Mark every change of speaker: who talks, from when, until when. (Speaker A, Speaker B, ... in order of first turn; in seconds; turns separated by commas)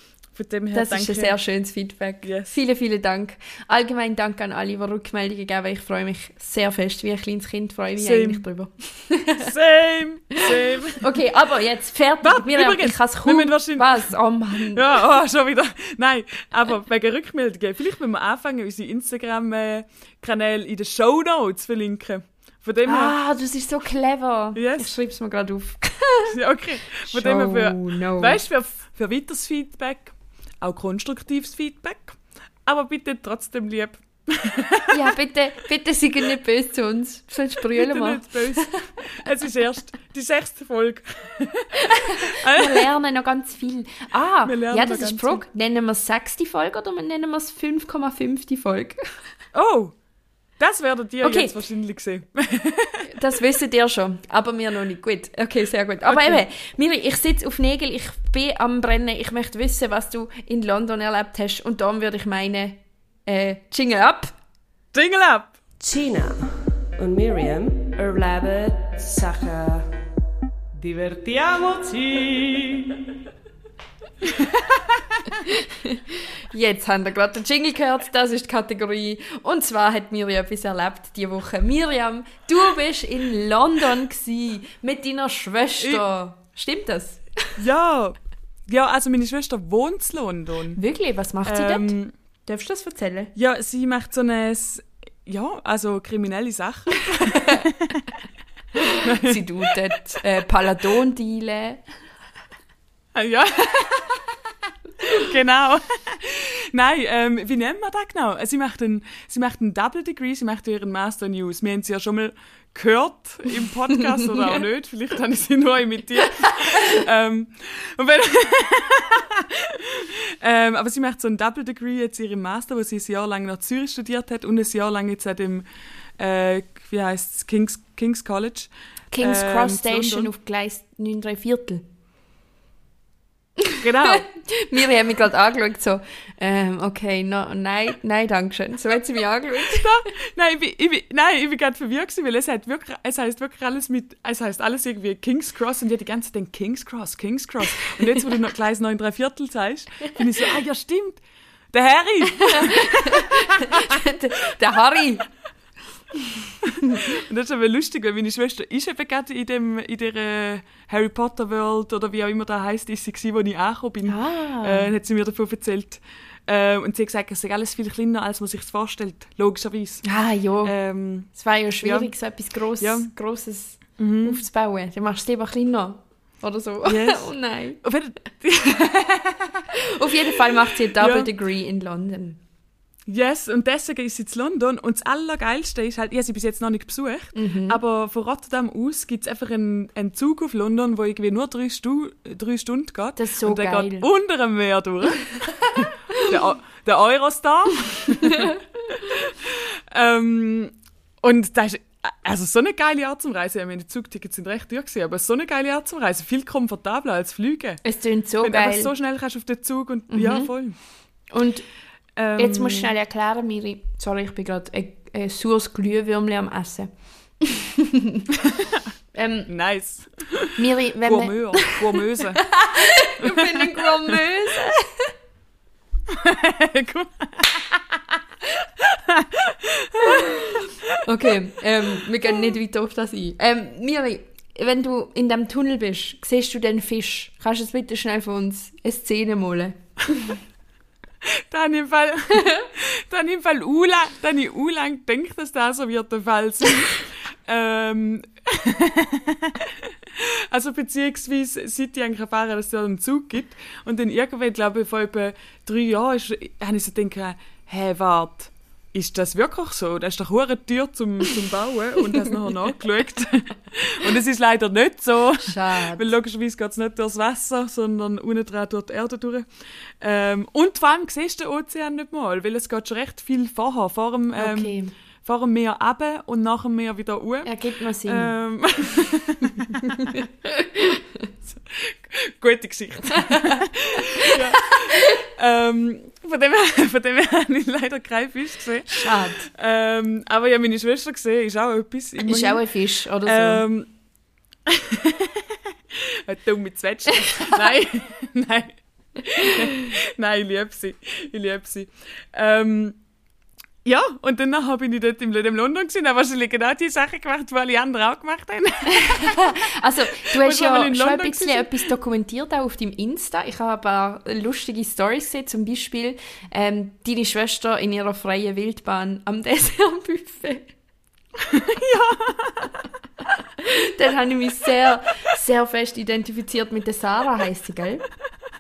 Speaker A: 0.3-1.4, Speaker B: 0.7-9.5, Speaker A: 2.2-2.5, Speaker A: 8.0-8.4, Speaker A: 9.4-11.0, Speaker B: 11.0-14.8, Speaker A: 12.2-14.1, Speaker A: 14.7-23.2, Speaker B: 22.9-26.3, Speaker A: 24.6-24.9, Speaker A: 26.3-35.1, Speaker B: 27.0-28.4, Speaker B: 34.9-38.7, Speaker A: 37.7-42.9, Speaker B: 41.8-49.0, Speaker A: 44.5-45.4, Speaker A: 49.5-49.9, Speaker A: 50.6-53.1, Speaker B: 51.2-51.5, Speaker B: 53.1-64.3, Speaker A: 56.1-56.4, Speaker A: 64.9-65.6, Speaker C: 65.8-69.9, Speaker C: 70.7-73.0, Speaker B: 75.5-87.2, Speaker A: 85.8-86.0, Speaker A: 87.6-90.8, Speaker B: 90.8-93.3, Speaker A: 91.5-92.1, Speaker A: 93.3-97.9, Speaker B: 98.9-101.8, Speaker A: 99.0-99.5, Speaker A: 103.2-104.2, Speaker A: 105.0-125.7, Speaker A: 126.2-130.3, Speaker B: 129.1-131.8, Speaker A: 133.8-134.3, Speaker B: 134.0-139.9, Speaker A: 139.7-153.3, Speaker B: 152.5-155.3, Speaker A: 157.0-170.0, Speaker B: 164.1-164.9, Speaker B: 170.0-170.7, Speaker A: 170.6-171.3, Speaker B: 171.3-177.8, Speaker A: 171.8-172.1, Speaker A: 172.8-173.1, Speaker A: 174.0-174.4, Speaker A: 176.8-177.3, Speaker A: 177.8-179.7, Speaker B: 179.8-182.4, Speaker A: 181.0-181.3, Speaker A: 183.1-207.8, Speaker B: 187.3-187.8, Speaker B: 193.2-194.1, Speaker B: 207.8-208.9, Speaker A: 208.4-210.8, Speaker B: 210.1-210.5, Speaker B: 211.3-211.6, Speaker A: 212.2-212.9, Speaker B: 212.4-218.2, Speaker A: 218.4-218.8, Speaker B: 219.1-219.5, Speaker A: 219.5-222.4, Speaker B: 220.6-225.1, Speaker A: 223.2-224.2, Speaker A: 226.1-228.0, Speaker A: 228.8-231.0, Speaker B: 230.1-240.3, Speaker A: 241.3-269.5, Speaker B: 265.4-266.1, Speaker A: 270.0-280.0, Speaker B: 274.4-274.9, Speaker B: 277.4-278.3, Speaker B: 280.0-281.0, Speaker A: 281.5-292.6, Speaker B: 283.2-285.0, Speaker B: 288.9-289.5, Speaker B: 292.2-293.6, Speaker A: 293.2-293.9, Speaker A: 294.7-303.0, Speaker A: 303.9-309.5, Speaker B: 309.0-320.7, Speaker A: 310.3-311.8, Speaker A: 321.4-322.7, Speaker B: 323.6-328.1